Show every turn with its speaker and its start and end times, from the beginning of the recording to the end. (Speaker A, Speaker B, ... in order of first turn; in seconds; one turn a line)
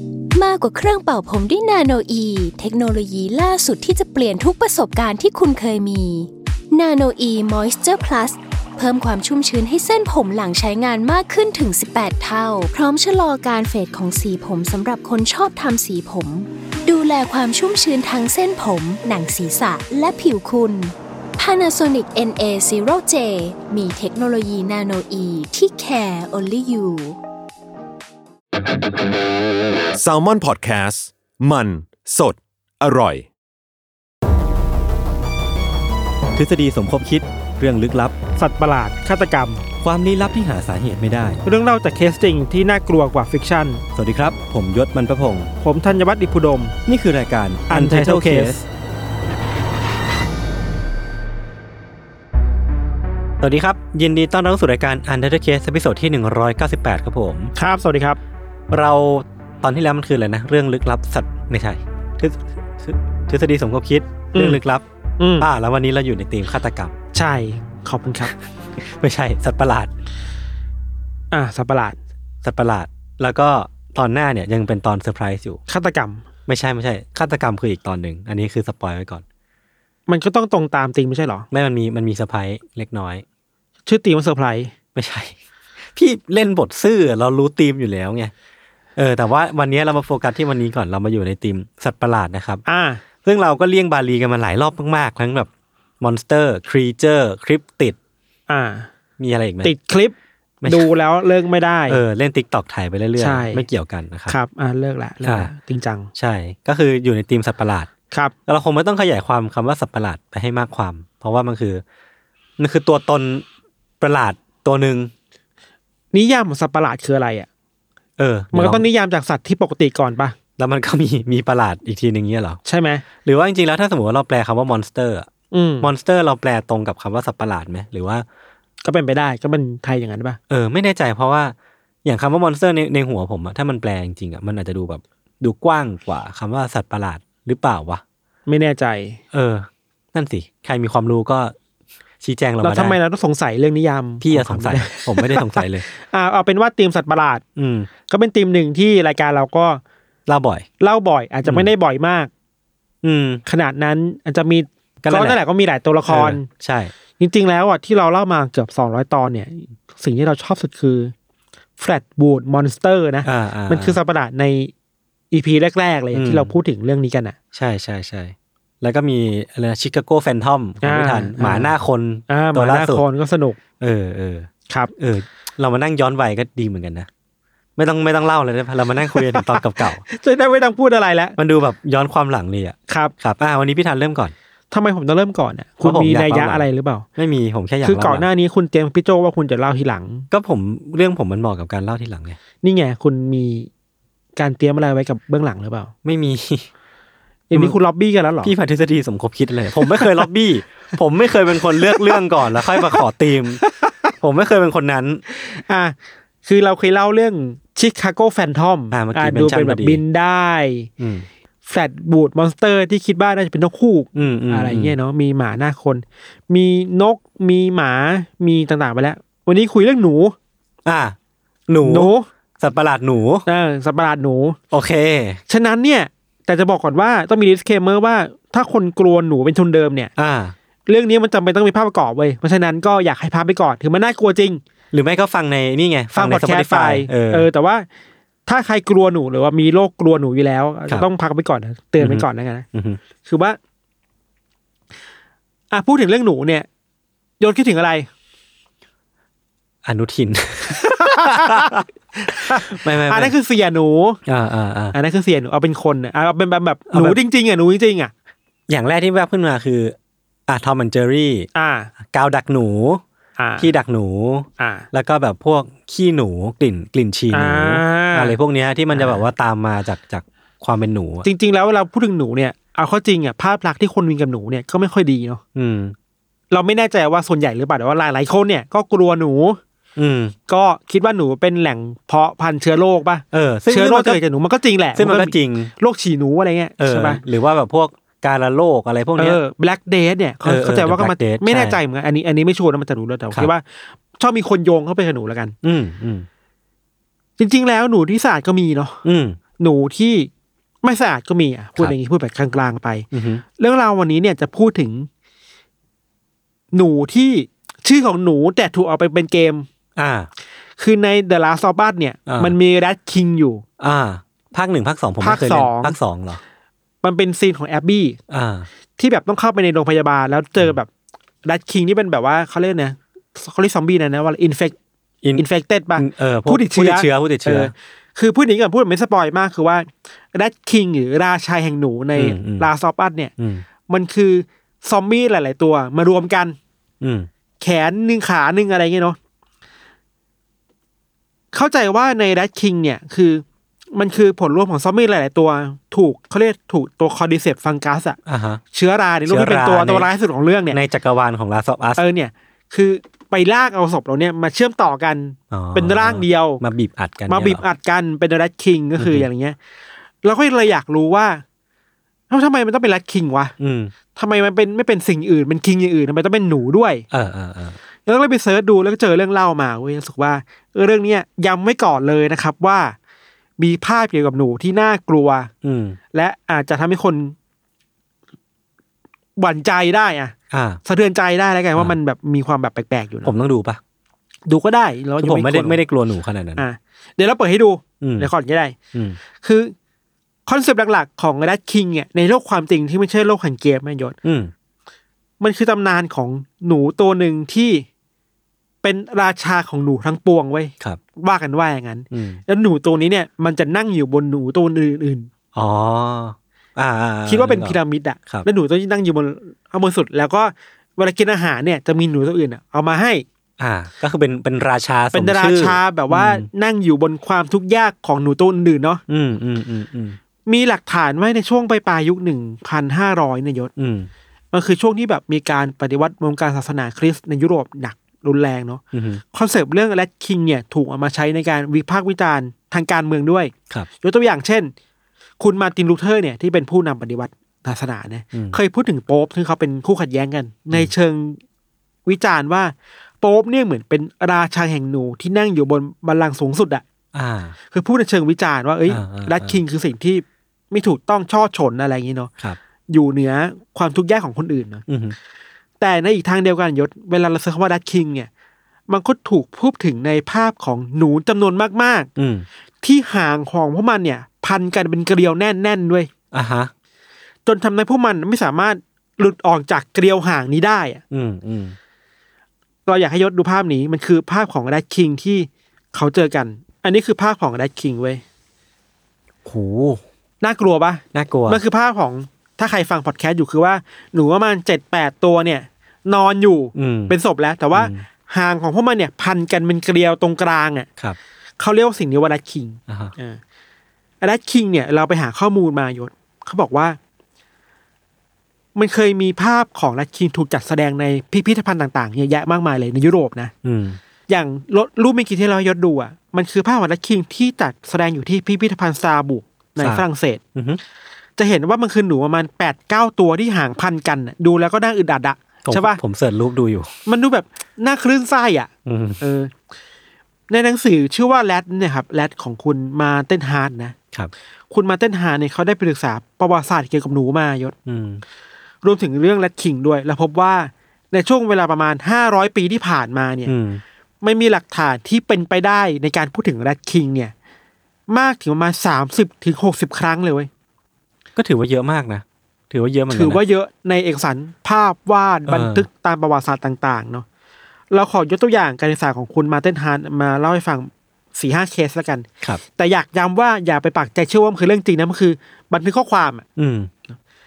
Speaker A: 0.3-27.2
Speaker B: 29.9-33.3
Speaker C: 36.3-38.1
Speaker D: 38.4-39.6
Speaker C: 39.8-41.4
Speaker D: 41.4-43.8
Speaker C: 43.9-45.5
Speaker D: 45.6-46.8
Speaker C: 46.9-48.6
Speaker D: 47.7-48.6
Speaker C: 53.4-57.5
Speaker D: 57.5-58.2
Speaker C: 58.7-64.8
Speaker D: 64.3-64.6
Speaker D: 65.2-65.5
Speaker C: 65.4-66.9
Speaker D: 67.1-68.3
Speaker C: 68.2-69.9
Speaker D: 71.3-72.0
Speaker C: 72.4-75.6
Speaker D: 75.7-76.2
Speaker C: 76.5-79.2
Speaker D: 80.1-81.5
Speaker C: 81.5-83.2
Speaker D: 83.8-84.7
Speaker C: 84.9-85.3
Speaker C: 85.9-88.3
Speaker C: 89.0-92.6
Speaker D: 92.7-93.0
Speaker C: 93.2-95.5
Speaker C: 96.0-98.0
Speaker D: 98.5-98.9
Speaker C: 99.2-99.7
Speaker D: 99.6-102.0
Speaker C: 100.6-100.9
Speaker C: 101.9-104.3
Speaker D: 103.2-103.6
Speaker D: 104.3-106.1
Speaker C: 105.2-105.5
Speaker C: 106.1-107.9
Speaker C: 108.5-111.8
Speaker C: 112.6-113.4
Speaker C: 114.0-115.1
Speaker D: 116.1-117.5
Speaker C: 118.2-118.9
Speaker D: 118.5-120.3
Speaker C: 120.6-122.6
Speaker D: 122.6-123.0
Speaker C: 123.2-125.3
Speaker D: 125.5-125.9
Speaker C: 125.8-128.2
Speaker D: 128.8-130.4
Speaker C: 130.5-138.0
Speaker D: 138.5-139.2
Speaker C: 139.3-141.5
Speaker C: 142.2-143.0
Speaker D: 142.6-147.4
Speaker C: 144.2-145.8
Speaker C: 147.6-147.9
Speaker D: 148.1-149.8
Speaker C: 150.3-150.7
Speaker D: 150.8-152.3
Speaker C: 151.4-151.7
Speaker C: 153.0-153.4
Speaker D: 153.5-156.5
Speaker C: 155.0-155.4
Speaker C: 156.1-156.9
Speaker D: 157.2-161.1
Speaker D: 161.8-164.7
Speaker C: 163.2-164.0
Speaker D: 165.3-167.3
Speaker C: 166.1-166.5
Speaker C: 167.5-173.0
Speaker D: 170.8-171.7
Speaker D: 172.3-173.6
Speaker C: 173.8-177.1
Speaker C: 177.8-180.0
Speaker D: 179.1-181.4
Speaker C: 181.4-184.3
Speaker D: 184.7-187.1
Speaker C: 185.8-186.6
Speaker C: 187.2-188.3
Speaker D: 187.8-190.3
Speaker C: 190.3-192.4
Speaker D: 192.6-193.7
Speaker D: 194.3-195.9
Speaker C: 196.0-196.7
Speaker D: 197.5-198.5
Speaker C: 197.5-197.8
Speaker C: 198.4-205.2
Speaker D: 199.9-200.2
Speaker D: 201.6-203.0
Speaker D: 203.6-204.1
Speaker D: 205.3-210.9
Speaker C: 208.9-210.0
Speaker C: 211.0-211.2
Speaker D: 211.7-220.3
Speaker C: 214.1-214.9
Speaker C: 220.8-221.1
Speaker C: 221.7-223.4
Speaker D: 221.8-222.3
Speaker D: 223.4-224.6
Speaker C: 224.7-225.4
Speaker D: 225.5-230.1
Speaker C: 230.2-230.5
Speaker D: 230.9-234.6
Speaker C: 234.9-237.5
Speaker D: 236.1-237.9
Speaker D: 238.4-242.7
Speaker C: 242.0-243.0
Speaker D: 243.2-243.6
Speaker D: 245.7-246.7
Speaker D: 247.4-248.1
Speaker C: 249.8-253.3
Speaker D: 250.7-254.2
Speaker C: 254.2-254.9
Speaker D: 254.9-258.1
Speaker C: 256.9-257.2
Speaker C: 258.7-259.9
Speaker C: 260.5-261.5
Speaker D: 261.5-261.9
Speaker C: 262.1-263.0
Speaker D: 263.4-263.7
Speaker C: 263.6-271.2
Speaker D: 264.6-264.9
Speaker D: 267.3-268.4
Speaker D: 268.9-269.2
Speaker D: 271.2-275.4
Speaker C: 275.5-275.9
Speaker D: 276.5-279.6
Speaker C: 279.9-280.3
Speaker D: 280.5-287.2
Speaker C: 283.3-284.2
Speaker C: 284.9-285.7
Speaker C: 286.8-289.4
Speaker D: 289.2-295.6
Speaker C: 290.4-291.8
Speaker C: 295.6-296.3
Speaker D: 297.4-299.0
Speaker C: 299.0-299.4
Speaker D: 299.6-300.3
Speaker D: 300.8-305.1
Speaker C: 303.1-303.4
Speaker D: 306.7-309.6
Speaker C: 309.9-310.3
Speaker D: 310.8-313.6
Speaker C: 312.3-312.5
Speaker C: 313.8-316.4
Speaker D: 315.2-316.0
Speaker D: 317.0-318.2
Speaker C: 318.3-318.7
Speaker D: 319.0-320.9
Speaker D: 321.4-324.8
Speaker D: 325.4-333.3
Speaker C: 326.0-327.7
Speaker C: 332.1-332.7
Speaker C: 333.4-333.6
Speaker D: 333.9-336.6
Speaker C: 337.0-337.3
Speaker D: 337.6-339.2
Speaker D: 341.5-348.2
Speaker C: 348.2-348.6
Speaker D: 348.7-350.8
Speaker C: 349.3-350.1
Speaker C: 350.7-352.0
Speaker D: 352.0-356.6
Speaker C: 355.5-357.6
Speaker D: 357.3-359.6
Speaker C: 359.0-359.3
Speaker D: 360.2-361.4
Speaker D: 362.3-363.5
Speaker C: 363.6-363.9
Speaker D: 364.1-367.0
Speaker C: 367.1-367.8
Speaker D: 368.1-372.9
Speaker D: 373.6-375.5
Speaker C: 375.6-376.0
Speaker D: 376.1-377.3
Speaker D: 379.4-383.3
Speaker C: 380.5-380.8
Speaker C: 383.2-383.8
Speaker D: 384.5-385.8
Speaker C: 385.2-386.6
Speaker D: 386.6-388.8
Speaker C: 388.0-388.3
Speaker D: 389.4-389.7
Speaker D: 390.4-394.1
Speaker C: 394.2-394.5
Speaker D: 395.4-397.8
Speaker D: 398.8-405.3
Speaker C: 402.1-402.4
Speaker C: 405.5-408.5
Speaker D: 407.2-413.2
Speaker C: 413.6-416.5
Speaker D: 415.1-419.0
Speaker C: 419.1-420.2
Speaker D: 420.4-423.7
Speaker C: 423.8-424.1
Speaker D: 424.5-428.8
Speaker C: 428.9-429.2
Speaker D: 429.3-434.7
Speaker D: 435.4-441.4
Speaker C: 438.3-438.6
Speaker D: 442.1-446.8
Speaker C: 447.1-447.6
Speaker D: 447.7-452.3
Speaker C: 448.9-449.6
Speaker D: 452.9-454.8
Speaker C: 454.9-455.1
Speaker D: 455.8-458.3
Speaker D: 458.9-462.1
Speaker C: 462.2-462.4
Speaker D: 462.8-466.1
Speaker C: 466.3-466.7
Speaker D: 467.4-471.0
Speaker C: 471.1-471.8
Speaker D: 472.9-478.2
Speaker C: 479.4-480.0
Speaker D: 480.4-490.9
Speaker C: 481.1-481.6
Speaker C: 486.7-487.1
Speaker C: 487.7-488.0
Speaker D: 491.6-493.4
Speaker C: 492.9-493.1
Speaker D: 494.2-497.0
Speaker D: 498.7-503.5
Speaker C: 503.6-504.0
Speaker D: 504.3-510.4
Speaker C: 509.8-510.0
Speaker C: 510.5-510.8
Speaker D: 511.4-516.0
Speaker C: 515.6-516.9
Speaker D: 517.0-519.5
Speaker C: 518.9-519.2
Speaker D: 520.5-524.0
Speaker D: 524.7-527.7
Speaker C: 527.9-528.2
Speaker D: 528.8-533.5
Speaker C: 533.5-533.8
Speaker D: 534.2-537.3
Speaker D: 538.1-540.5
Speaker C: 541.4-543.4
Speaker D: 543.1-547.2
Speaker C: 545.5-545.9
Speaker D: 547.9-556.4
Speaker C: 556.6-556.9